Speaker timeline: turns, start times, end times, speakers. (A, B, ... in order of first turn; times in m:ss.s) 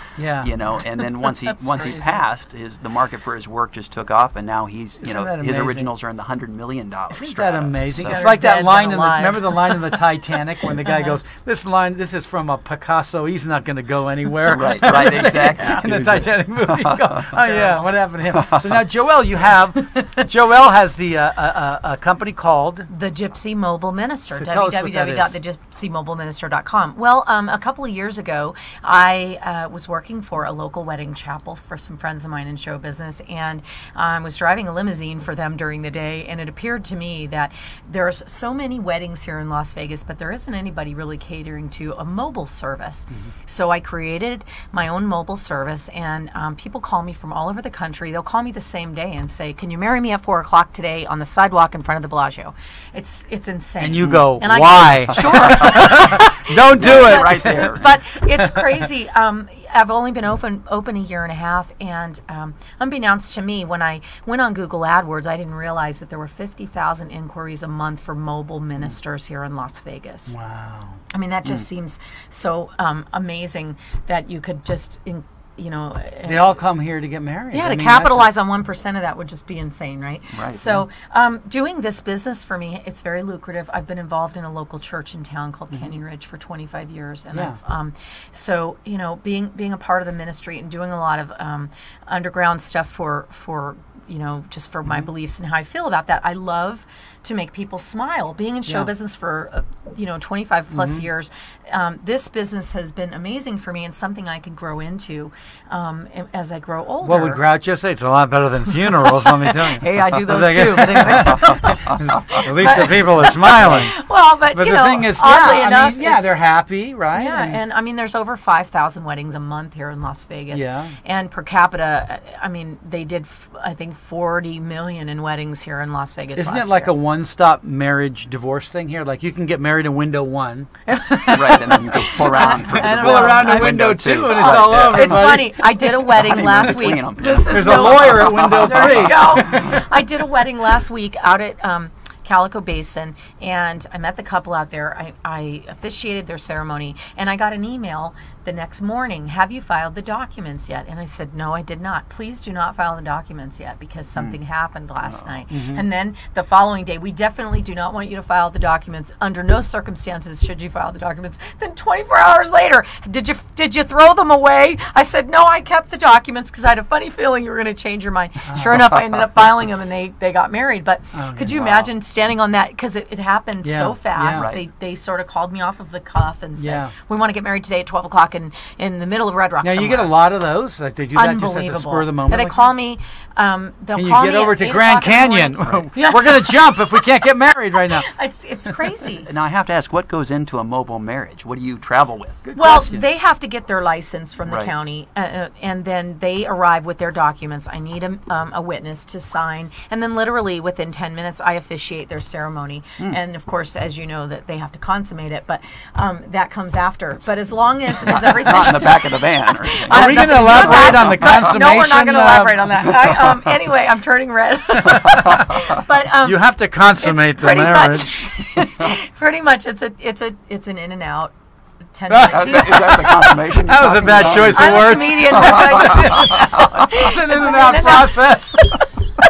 0:00.2-0:00.5 A
0:00.4-0:08.3 B
0:01.3-0:02.2 C
0:05.0-0:05.9 A
0:07.1-0:22.9 A
0:08.0-0:09.9 C
0:10.8-0:11.1 C
0:14.4-0:17.4 B
0:17.4-0:17.8 C
0:18.3-0:18.6 B
0:22.9-1:10.3 C
0:24.3-0:25.3 A
0:53.8-0:57.7 A
0:55.2-0:55.7 B
0:56.7-0:57.9 B
0:58.4-0:58.7 A
1:10.3-1:11.0 A
1:11.1-1:16.6 C
1:16.2-1:18.3 A
1:17.5-1:47.4 C
1:20.3-1:20.8 B
1:40.7-1:41.0 A
1:47.0-1:54.0 A
1:48.9-1:56.4 C
1:54.5-1:57.6 A
1:57.1-2:06.9 C
2:00.5-2:01.0 A
2:06.4-2:10.7 A
2:10.9-2:13.7 C
2:11.3-2:15.3 B
2:12.4-2:16.0 A
2:14.3-3:00.2 C
2:16.1-2:19.2 B
2:17.4-2:19.8 A
2:35.0-2:35.4 B
2:35.5-2:35.8 A
2:48.5-2:48.8 A
2:51.1-2:51.6 A
2:51.5-2:51.9 B
2:53.6-2:54.5 A
2:54.3-2:54.6 B
2:56.6-2:56.9 A
2:59.6-3:02.7 A
3:01.1-3:06.8 C
3:03.9-3:08.1 A
3:08.0-3:09.3 C
3:09.2-3:12.4 B
3:12.4-3:13.0 A
3:12.5-3:41.3 C
3:14.4-3:14.7 B
3:28.0-3:31.4 B
3:29.9-3:32.9 A
3:36.2-3:38.4 A
3:41.9-3:42.9 C
3:42.1-3:48.8 A
3:42.3-3:46.5 B
3:44.5-3:48.8 C